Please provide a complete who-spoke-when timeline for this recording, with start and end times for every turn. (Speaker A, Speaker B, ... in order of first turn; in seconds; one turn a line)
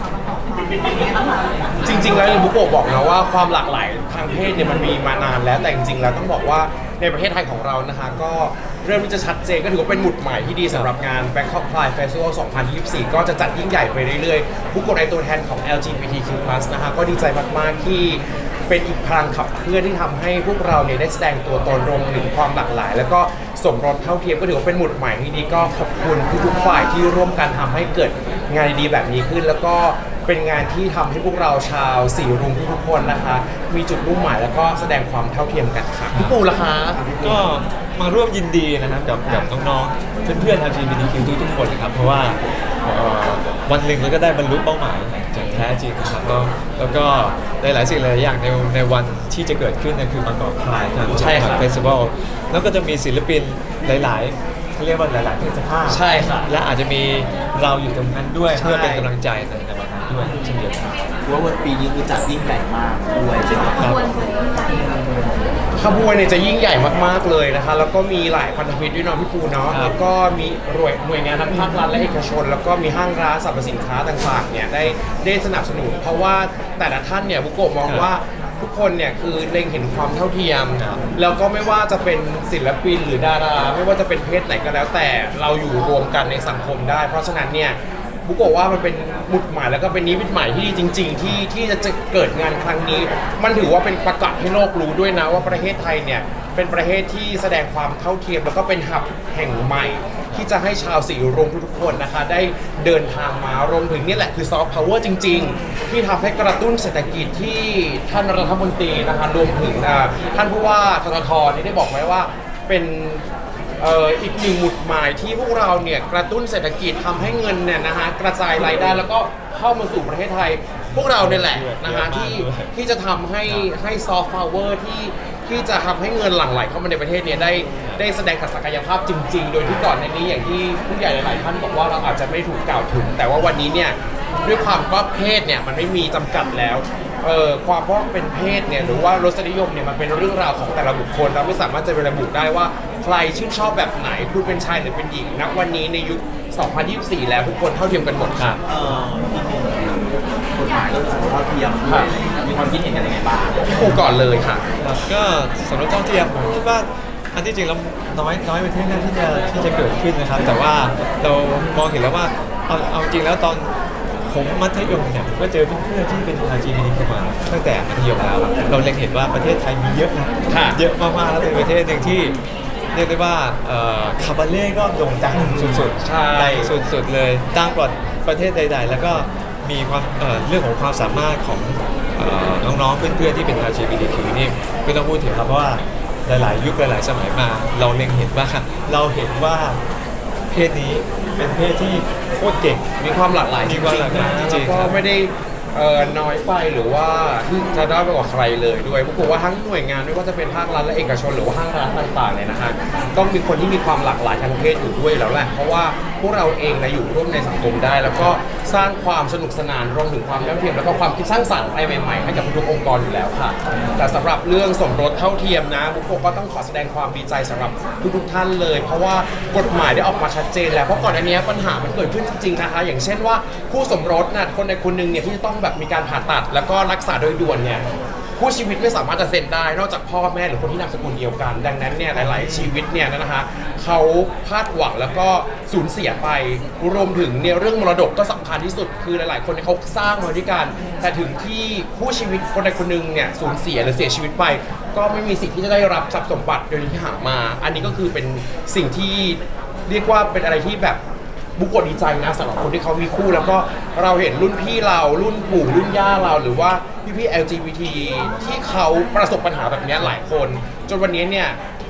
Speaker A: 1.8-37.0
Speaker B: 37.0-37.5
Speaker C: 37.2-61.0
Speaker A: 51.1-51.7
Speaker A: 55.9-56.5
Speaker A: 58.5-59.1
Speaker B: 60.2-60.6
Speaker B: 61.2-64.2
Speaker C: 63.8-64.0
Speaker A: 65.7-113.2
Speaker C: 69.7-69.9
Speaker C: 80.8-81.1
Speaker A: 113.8-148.6
Speaker C: 120.9-122.7
Speaker C: 148.4-148.6
Speaker B: 148.6-153.9
Speaker A: 151.8-152.1
Speaker A: 153.7-154.6
Speaker C: 154.8-163.7
Speaker C: 164.2-172.4
Speaker A: 170.5-170.8
Speaker C: 172.9-189.8
Speaker A: 175.4-176.7
Speaker C: 190.5-192.8
Speaker A: 193.0-227.8
Speaker C: 193.6-195.0
Speaker A: 228.4-251.0
Speaker C: 232.1-232.7
Speaker A: 251.6-261.6